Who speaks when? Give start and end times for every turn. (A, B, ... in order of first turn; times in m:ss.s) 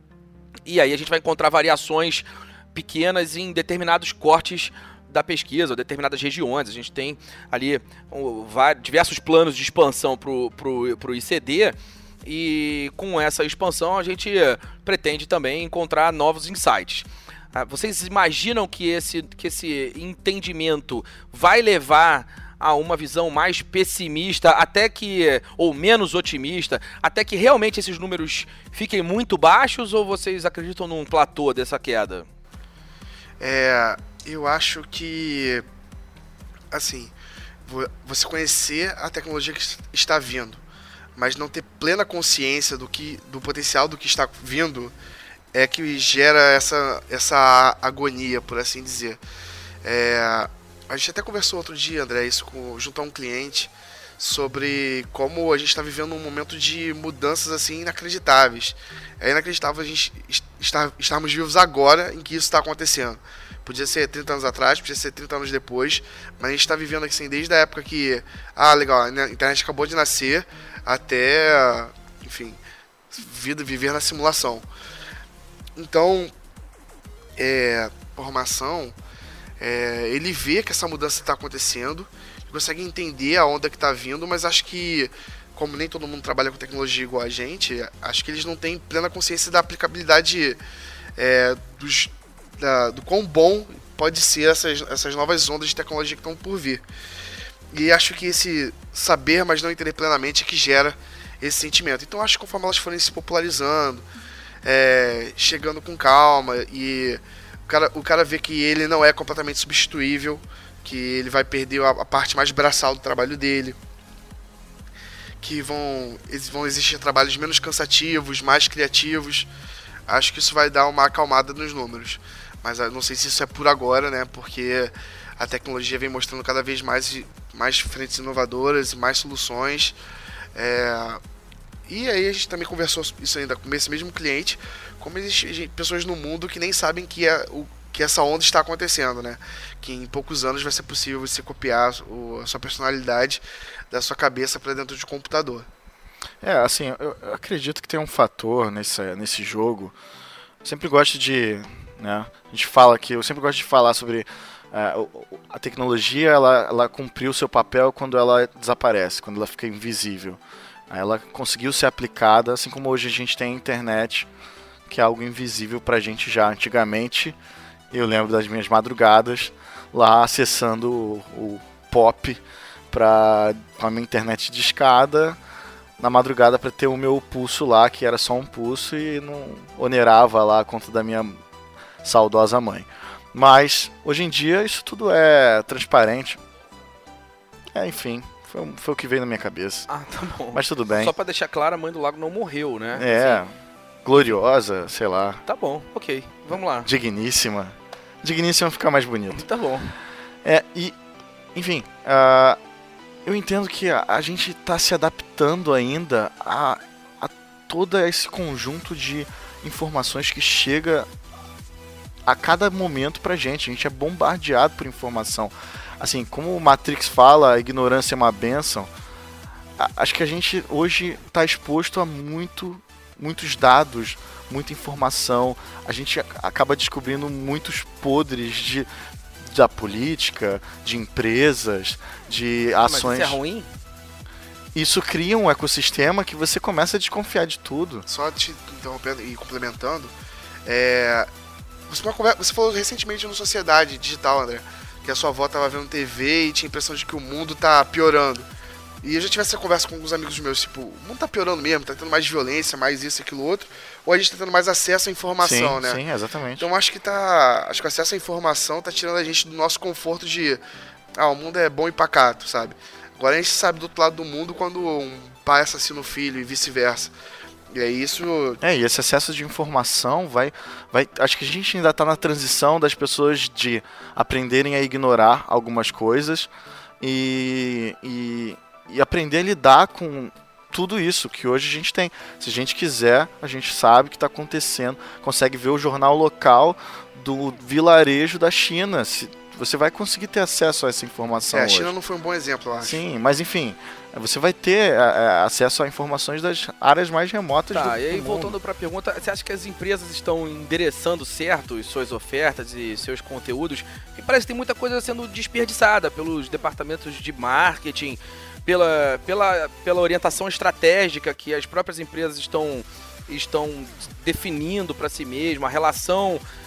0:00.7-0:32.3 A
0:33.4-0:35.6 B
0:36.7-0:37.1 B
0:37.7-0:40.6 B
0:41.2-0:44.9 B
0:45.5-0:49.2 B
0:49.8-1:12.6 B
1:13.1-1:14.7 B
1:15.8-1:16.3 B
1:17.4-1:19.0 B
1:19.6-1:30.6 B
1:31.2-1:36.8 B
1:37.7-1:44.0 B
1:44.6-1:53.8 B
1:55.4-1:59.5 B
2:00.1-2:10.0 B
2:10.6-2:11.2 B
2:11.9-2:25.7 B
2:26.4-2:30.0 C
2:30.6-2:44.3 C
2:44.9-2:47.4 C
2:47.9-2:55.4 C
2:56.0-3:01.4 C
3:02.0-3:06.4 C
3:07.7-3:09.9 C
3:09.9-3:13.4 A
3:10.5-3:11.1 C
3:13.0-3:13.5 C
3:14.0-3:15.4 C
3:15.5-3:16.9 A
3:16.8-3:19.5 C
3:19.3-3:19.9 A
3:20.4-3:21.0 C
3:21.5-3:22.6 C
3:23.2-3:31.1 C
3:32.2-3:38.9 C
3:39.8-3:48.9 C
3:49.4-3:53.4 C
3:52.8-3:53.7 A
3:54.7-3:58.1 C
3:58.1-4:00.1 B
4:00.7-4:01.3 B
4:01.9-4:08.5 B
4:09.0-4:16.0 B
4:15.4-4:16.7 C
4:16.6-4:20.6 B
4:21.2-4:27.1 B
4:27.7-4:28.6 B
4:28.6-4:36.5 C
4:37.0-4:51.9 C
4:51.5-4:53.0 B
4:52.8-4:58.6 C
4:57.7-5:16.4 A